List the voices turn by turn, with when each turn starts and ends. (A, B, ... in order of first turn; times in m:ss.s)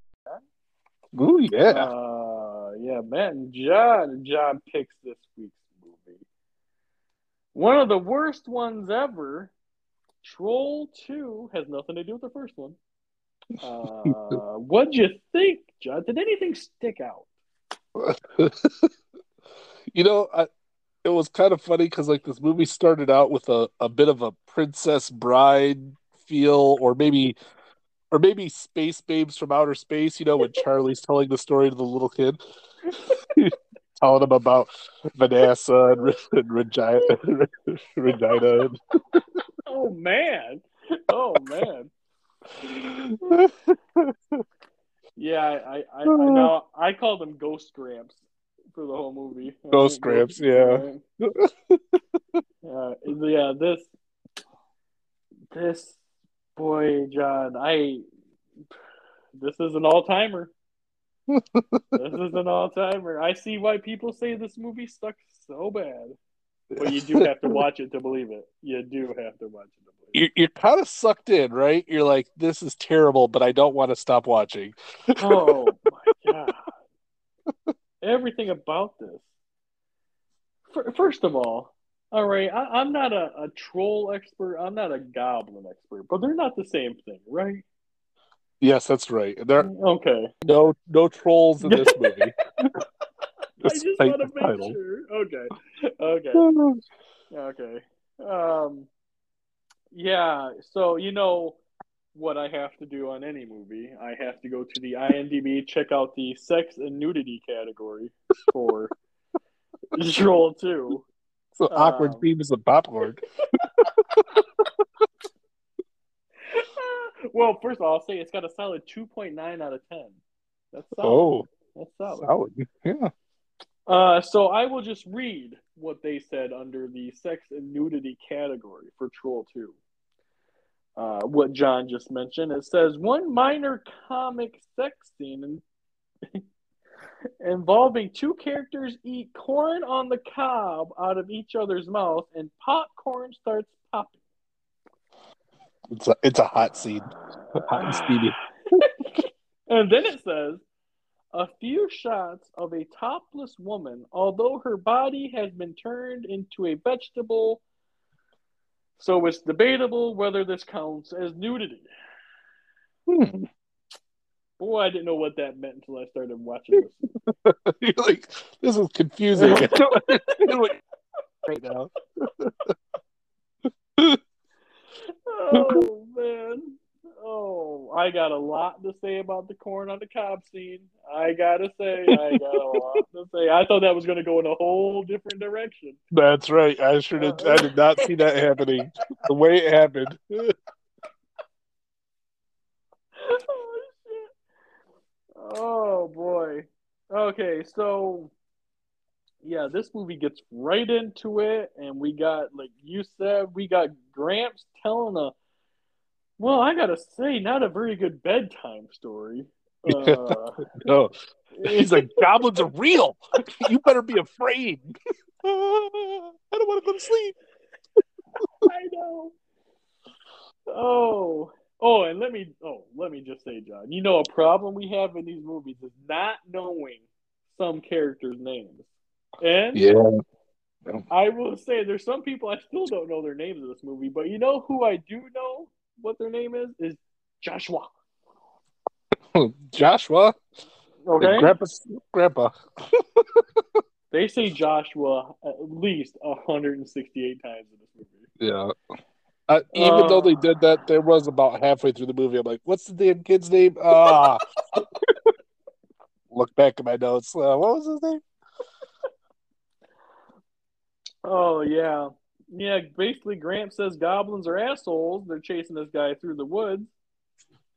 0:01.1-0:01.9 A
0:01.7-0:06.2 B
0:07.5-0:09.5 B
0:10.2-0:12.8 B
0:13.6-0:17.3 B
0:14.1-0:14.4 A
0:18.0-0:18.9 A
0:19.9-0:20.5 A
0:21.0-0:27.4 A
0:28.1-0:32.4 A
0:32.9-0:33.2 B
0:33.3-0:39.2 A
0:39.6-0:41.9 B
0:42.7-0:44.4 A
0:43.2-0:43.5 B
0:45.2-0:51.0 B
0:46.1-0:46.5 A
0:49.7-0:52.0 A
0:52.6-0:53.9 B
0:55.5-0:56.0 B
0:56.6-0:58.0 B
0:59.4-1:00.5 B
1:01.3-1:02.0 A
1:01.9-1:06.2 B
1:06.7-1:07.6 A
1:06.8-1:10.2 B
1:10.1-1:15.5 A
1:15.2-1:16.7 B
1:18.0-1:19.3 B
1:20.7-1:27.6 B
1:28.6-1:29.7 A
1:29.6-1:30.3 B
1:30.4-1:32.3 A
1:31.6-1:32.2 B
1:33.6-1:34.8 A
1:33.6-1:36.5 B
1:36.4-1:36.8 A
1:37.3-1:38.9 B
1:39.9-1:41.6 B
1:42.1-1:48.9 B
1:49.9-1:51.1 B
1:51.6-1:53.2 A
1:51.7-1:52.2 B
1:53.4-1:53.9 B
1:56.5-2:00.2 B
2:00.7-2:02.3 B
2:01.0-2:01.4 A
2:02.1-2:03.1 A
2:03.9-2:09.8 B
2:11.0-2:15.6 B
2:17.4-2:24.2 B
2:25.9-2:28.3 A
2:27.1-2:28.8 B
2:29.7-2:30.6 B
2:31.3-2:37.6 B
2:39.0-2:41.9 B
2:43.1-2:43.5 A
2:44.6-2:47.0 B
2:47.3-2:50.8 A
2:49.3-2:50.6 B
2:51.4-2:52.7 A
2:55.0-3:06.0 B
2:55.5-2:55.8 A
3:02.1-3:02.7 A
3:06.1-3:10.5 A
3:07.2-3:07.7 B
3:13.2-3:14.3 B
3:15.4-3:18.3 B
3:19.4-3:25.3 B
3:26.4-3:30.7 B
3:29.9-3:37.4 A
3:31.5-3:32.6 B
3:38.6-3:39.3 B
3:40.7-3:48.9 B
3:49.4-3:49.9 B
3:49.7-3:50.1 A
3:51.1-3:57.9 B
3:59.3-4:00.4 A
4:01.0-4:01.6 B
4:01.2-4:03.2 A
4:04.1-4:08.3 B
4:08.4-4:08.7 A
4:09.5-4:14.4 A
4:09.7-4:10.6 B
4:16.3-4:18.2 A
4:21.2-4:26.9 B